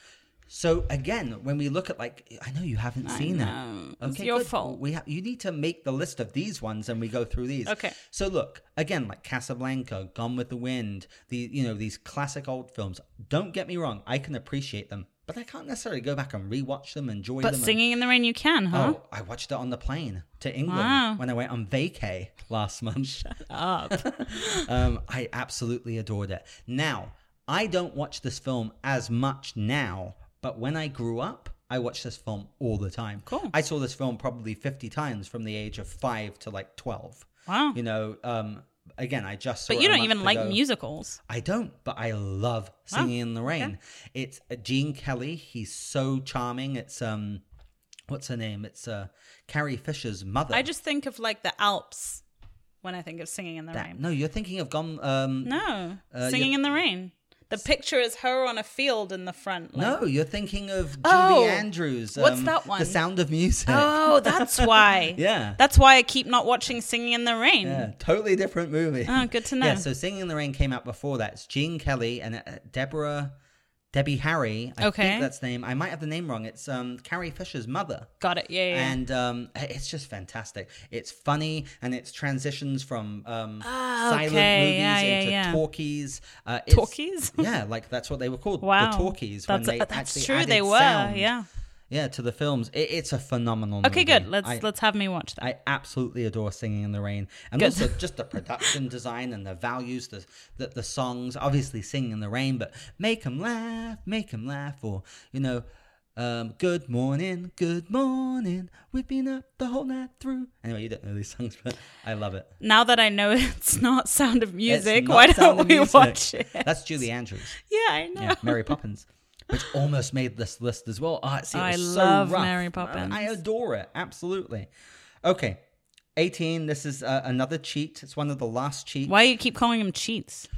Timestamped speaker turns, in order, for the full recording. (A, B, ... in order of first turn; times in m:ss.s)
0:00.5-0:17.8 A
0:03.0-0:04.8 B
0:07.7-0:07.9 B
0:17.4-0:19.0 B
0:18.7-0:23.4 A
0:20.7-0:21.2 B
0:23.2-0:24.7 B
0:23.9-0:40.6 A
0:33.2-0:33.5 B
0:37.5-0:37.8 B
0:39.7-0:41.2 B
0:41.2-0:47.4 A
0:42.9-0:43.7 B
0:48.1-0:50.6 A
0:50.5-0:52.2 B
0:52.8-0:54.0 B
0:53.7-0:56.6 A
0:55.4-1:00.0 B
0:59.7-1:05.6 A
1:01.0-1:03.0 B
1:03.7-1:07.9 B
1:07.6-1:13.3 A
1:09.0-1:09.8 B
1:13.9-1:18.1 A
1:14.8-1:15.3 B
1:18.2-1:19.0 B
1:18.7-1:31.3 A
1:23.6-1:25.6 B
1:26.7-1:27.5 B
1:28.6-1:31.4 B
1:31.9-1:34.6 A
1:33.8-1:35.4 B
1:35.4-1:45.6 A
1:37.6-1:38.0 B
1:46.2-1:52.5 A
1:52.6-1:56.7 B
1:54.7-1:57.6 A
1:57.6-1:58.7 B
1:58.2-2:04.7 A
2:01.5-2:03.3 B
2:05.2-2:05.6 A
2:06.2-2:09.2 A
2:09.0-2:10.5 B